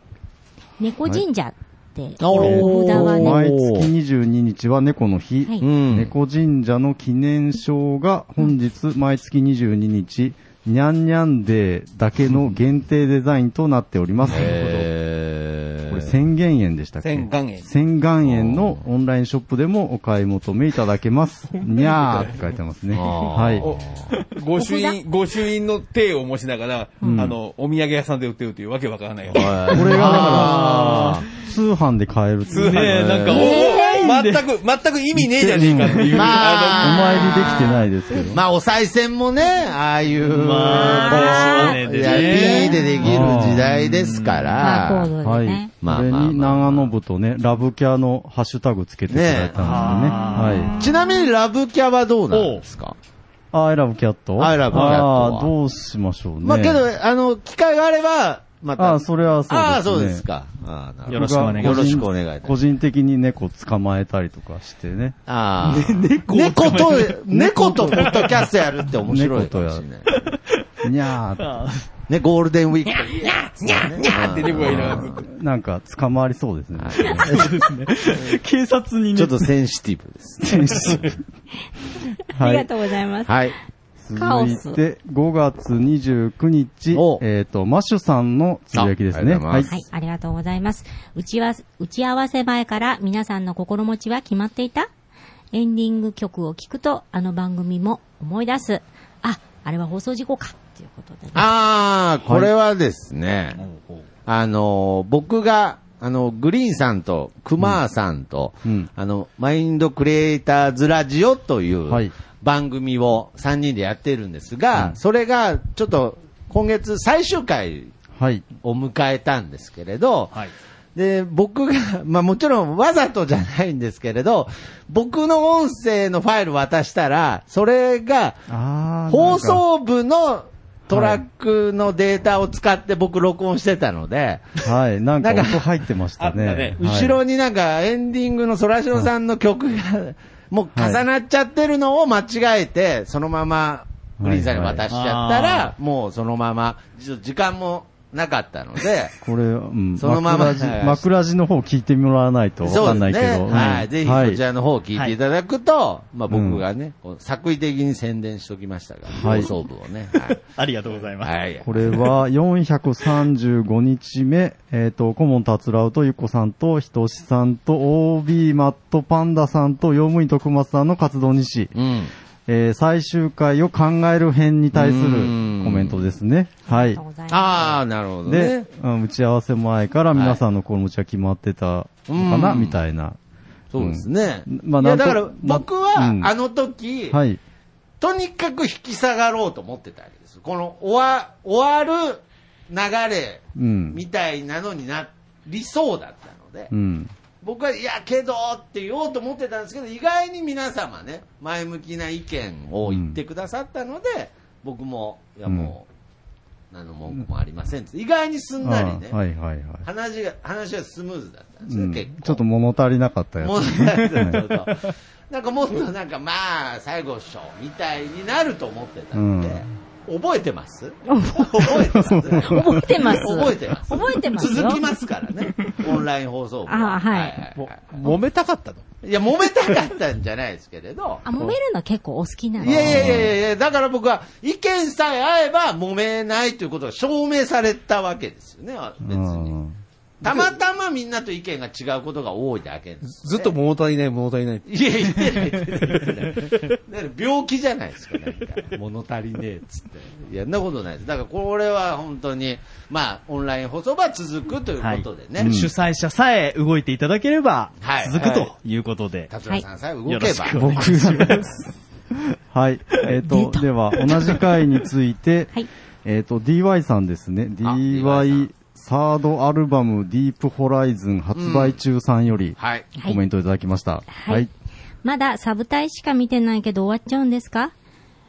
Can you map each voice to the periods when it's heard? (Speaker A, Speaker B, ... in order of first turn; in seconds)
Speaker A: 0.8-3.4, 24.5-25.0, 33.3-33.9, 40.7-43.1, 44.6-45.7, 50.2-51.3, 82.3-83.3, 84.1-84.8, 89.6-94.9, 95.5-101.5, 176.7-177.8, 221.1-221.8, 222.3-224.8, 226.7-227.4, 231.2-233.1, 263.3-263.6, 274.1-274.4, 275.0-277.7
Speaker B: 2.2-3.9, 5.6-6.1, 14.3-16.1, 18.2-18.8, 22.9-24.1, 29.3-31.2, 36.1-37.7, 38.3-45.1, 45.8-46.9, 49.1-53.0, 54.4-55.5, 56.4-62.5, 65.3-70.1, 72.1-75.2, 76.8-77.5, 79.1-81.1, 83.2-83.5, 86.9-87.2, 88.7-89.8, 101.3-103.6, 104.3-117.9, 118.6-120.4, 120.9-128.4, 129.1-134.6, 135.2-135.6, 136.8-149.2, 150.0-151.1, 152.6-160.4, 161.2-162.1, 171.7-172.1, 174.7-176.0, 177.3-178.6, 180.1-180.4, 182.1-182.8, 183.7-187.2, 188.0-196.7, 197.4-205.9, 206.7-209.2, 209.8-212.4, 213.4-228.2, 229.0-231.2, 232.6-239.6, 240.2-243.6, 244.7-255.5, 257.8-258.5, 259.3-260.7, 267.6-268.5, 271.4-271.8, 272.6-272.9
Speaker C: 2.3-14.9, 15.9-23.7, 27.0-27.4, 29.7-33.4, 35.1-36.2, 36.8-38.4, 43.0-43.6, 45.2-50.8, 53.5-56.8, 58.8-60.2, 61.1-65.2, 67.5-68.1, 69.0-69.8, 70.8-71.6, 74.6-77.4, 80.5-81.2, 82.3-82.7, 84.0-89.7, 102.2-102.5, 111.9-112.1, 118.1-118.4, 128.5-129.6, 130.9-131.2, 134.6-137.2, 140.7-141.0, 144.2-144.8, 149.2-154.4, 156.3-156.6, 159.1-159.5, 161.6-171.7, 172.5-177.0, 178.2-183.2, 183.8-186.3, 187.1-187.4, 193.6-194.0, 196.7-197.1, 202.8-203.2, 205.4-205.7, 208.6-209.8, 211.7-214.6, 219.1-219.6, 221.8-223.1, 232.6-233.3, 239.0-239.8, 255.4-255.7, 260.6-261.6, 262.5-265.5, 266.0-274.5
Speaker D: 17.0-17.7, 21.8-22.4, 23.6-29.9, 32.5-37.3, 74.0-75.3, 136.2-136.8, 227.6-228.8, 243.2-244.7
Speaker E: 29.9-31.2, 32.6-34.4, 40.2-44.7, 49.6-50.8, 52.3-52.6, 54.7-55.0, 61.1-62.0, 65.6-68.4, 71.4-71.8, 77.2-79.5, 103.6-104.0, 144.9-145.7, 153.5-153.8, 160.5-161.3, 254.8-259.3, 260.1-261.6